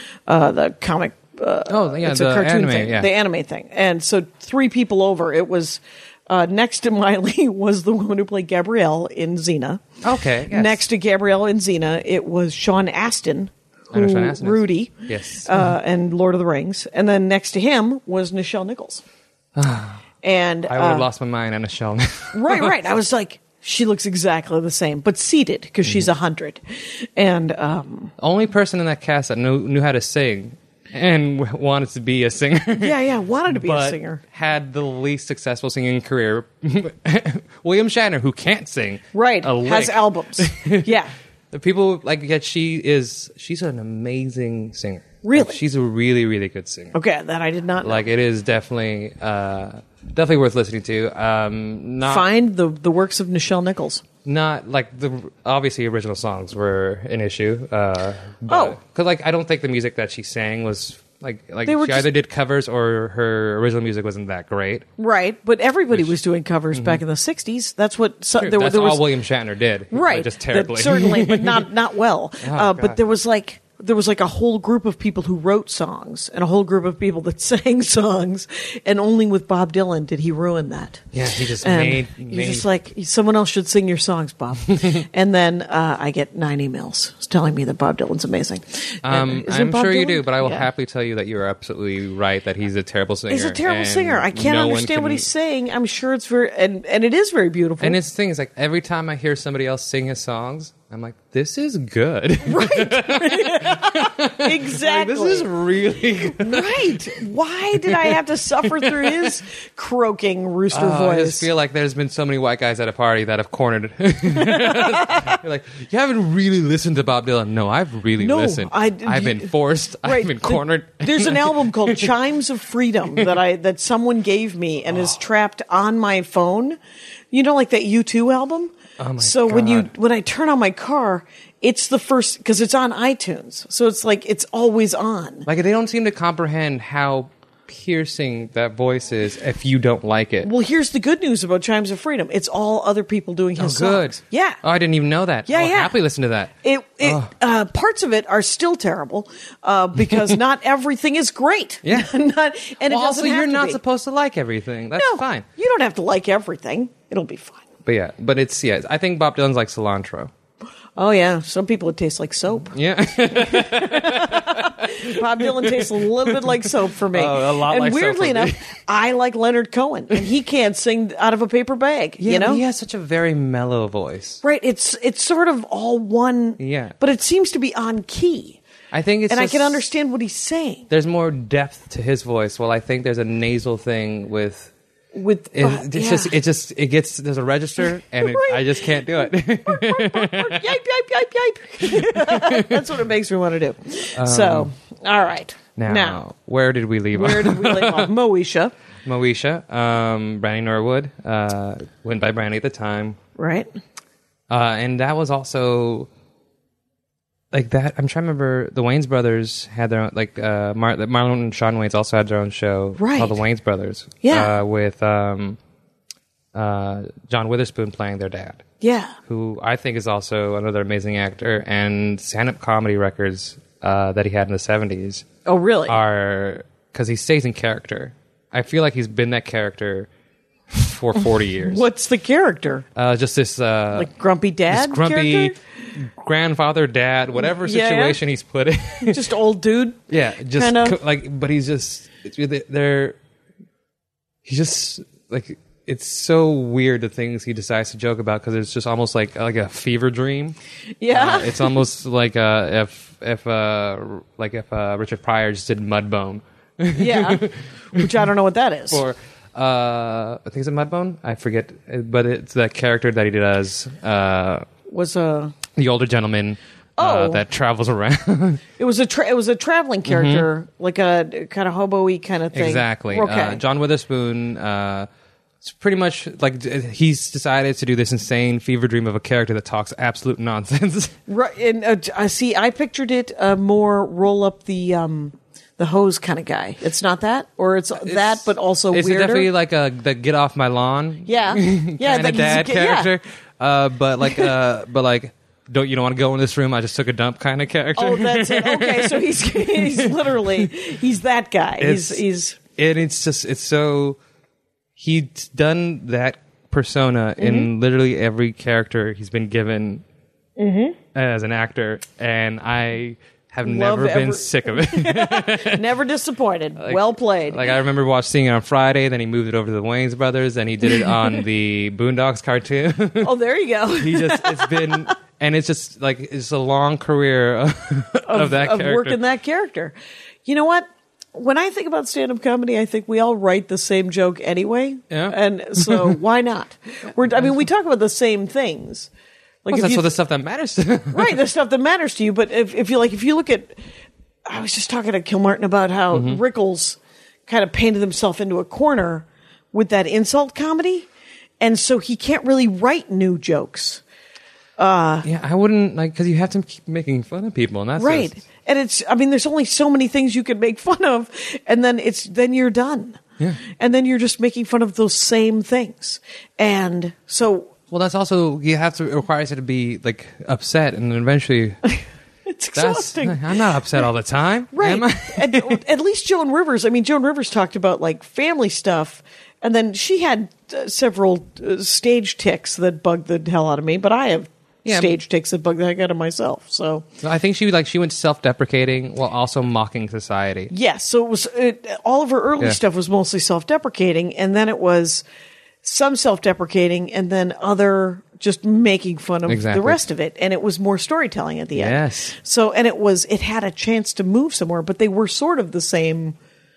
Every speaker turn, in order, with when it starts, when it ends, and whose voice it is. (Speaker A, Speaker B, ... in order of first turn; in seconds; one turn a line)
Speaker A: 0.3-9.9
Speaker B: 1.7-3.1
Speaker B: 10.0-10.8
Speaker A: 10.4-19.0
Speaker B: 13.9-15.7
Speaker B: 19.5-20.0
Speaker A: 20.2-21.1
Speaker B: 20.7-22.8
Speaker A: 22.3-28.1
Speaker B: 28.2-33.0
Speaker A: 32.8-34.2
Speaker B: 33.5-41.0
Speaker A: 39.1-41.1
Speaker B: 41.5-46.9
Speaker A: 45.2-45.6
Speaker A: 46.9-48.1
Speaker B: 47.8-52.3
Speaker A: 52.0-54.0
Speaker B: 54.2-64.9
Speaker A: 58.5-58.8
Speaker A: 61.6-62.1
Speaker A: 65.0-69.1
Speaker B: 66.7-67.0
Speaker B: 68.4-71.7
Speaker A: 69.9-81.0
Speaker B: 72.4-73.0
Speaker B: 81.1-82.7
Speaker A: 81.6-90.7
Speaker B: 89.0-95.3
Speaker A: 93.3-98.0
Speaker B: 97.8-109.4
Speaker A: 102.4-105.5
Speaker A: 106.3-111.5
Speaker B: 110.7-122.1
Speaker A: 114.3-115.4
Speaker A: 118.2-119.5
Speaker A: 120.0-126.8
Speaker A: 127.3-135.5
Speaker B: 129.0-129.9
Speaker B: 135.5-140.5
Speaker A: 140.4-144.6
Speaker B: 143.6-147.3
Speaker A: 145.5-145.9
Speaker A: 146.6-153.8
Speaker B: 150.1-150.4
Speaker B: 151.8-152.1
Speaker B: 152.8-155.4
Speaker A: 154.9-157.6
Speaker B: 157.8-160.3
Speaker A: 161.0-162.7
Speaker B: 162.6-168.7
Speaker A: 163.2-172.6
Speaker B: 172.2-174.4
Speaker A: 174.4-178.6
Speaker B: 176.6-176.9
Speaker B: 178.9-179.9
Speaker A: 179.3-180.9
Speaker B: 180.9-184.7
Speaker A: 185.1-186.3
Speaker B: 185.5-190.6
Speaker A: 188.2-196.2
Speaker B: 191.8-192.8
Speaker B: 194.2-194.7
Speaker B: 195.8-198.1
Speaker A: 197.1-198.7
Speaker B: 199.0-203.2
Speaker A: 203.4-203.7
Speaker B: 204.5-206.1
Speaker B: 207.5-215.6
Speaker A: 213.0-213.4
Speaker A: 214.2-214.5
Speaker B: 216.5-218.6
Speaker A: 218.8-219.2
Speaker B: 219.3-225.2
Speaker A: 225.4-226.0
Speaker B: 225.9-230.1
Speaker B: 230.7-231.8
Speaker A: 231.6-232.8
Speaker B: 232.9-234.1
Speaker A: 233.9-235.6
Speaker B: 234.7-239.2
Speaker A: 237.4-238.2
Speaker A: 239.0-241.0
Speaker B: 240.1-243.2
Speaker B: 244.4-250.6
Speaker A: 251.0-251.8
Speaker B: 251.1-258.1
Speaker A: 256.9-259.0
Speaker B: 258.9-264.7
Speaker A: 264.9-265.6
Speaker B: 265.7-268.6
Speaker A: 267.0-267.4
Speaker A: 268.8-273.6
Speaker B: 270.1-270.5
Speaker B: 272.5-275.1
Speaker B: 275.6-281.1
Speaker A: 281.3-289.5
Speaker B: 288.0-300.7
Speaker A: 291.2-293.1
Speaker A: 297.9-302.6
Speaker B: 301.8-302.2
Speaker B: 302.8-304.2
Speaker B: 305.0-310.0
Speaker A: 307.4-307.7
Speaker A: 310.6-311.0
Speaker B: 311.1-315.8
Speaker A: 313.6-317.7
Speaker B: 316.8-323.3
Speaker A: 323.2-325.1
Speaker B: 324.0-329.2
Speaker A: 328.2-339.1
Speaker B: 335.1-336.2
Speaker A: 339.6-340.1
Speaker B: 339.7-341.4
Speaker A: 341.1-343.8
Speaker A: 344.4-351.1
Speaker B: 346.1-346.4
Speaker A: 351.6-354.0
Speaker A: 354.8-355.3
Speaker B: 355.2-358.4
Speaker A: 358.0-363.2
Speaker A: 363.8-367.7
Speaker B: 367.9-371.8
Speaker A: 371.9-373.7
Speaker B: 372.7-375.8
Speaker A: 374.7-387.0
Speaker B: 384.8-385.2
Speaker B: 387.2-390.7
Speaker A: 390.7-395.2
Speaker A: 395.8-406.4
Speaker B: 399.4-400.0
Speaker B: 401.7-402.3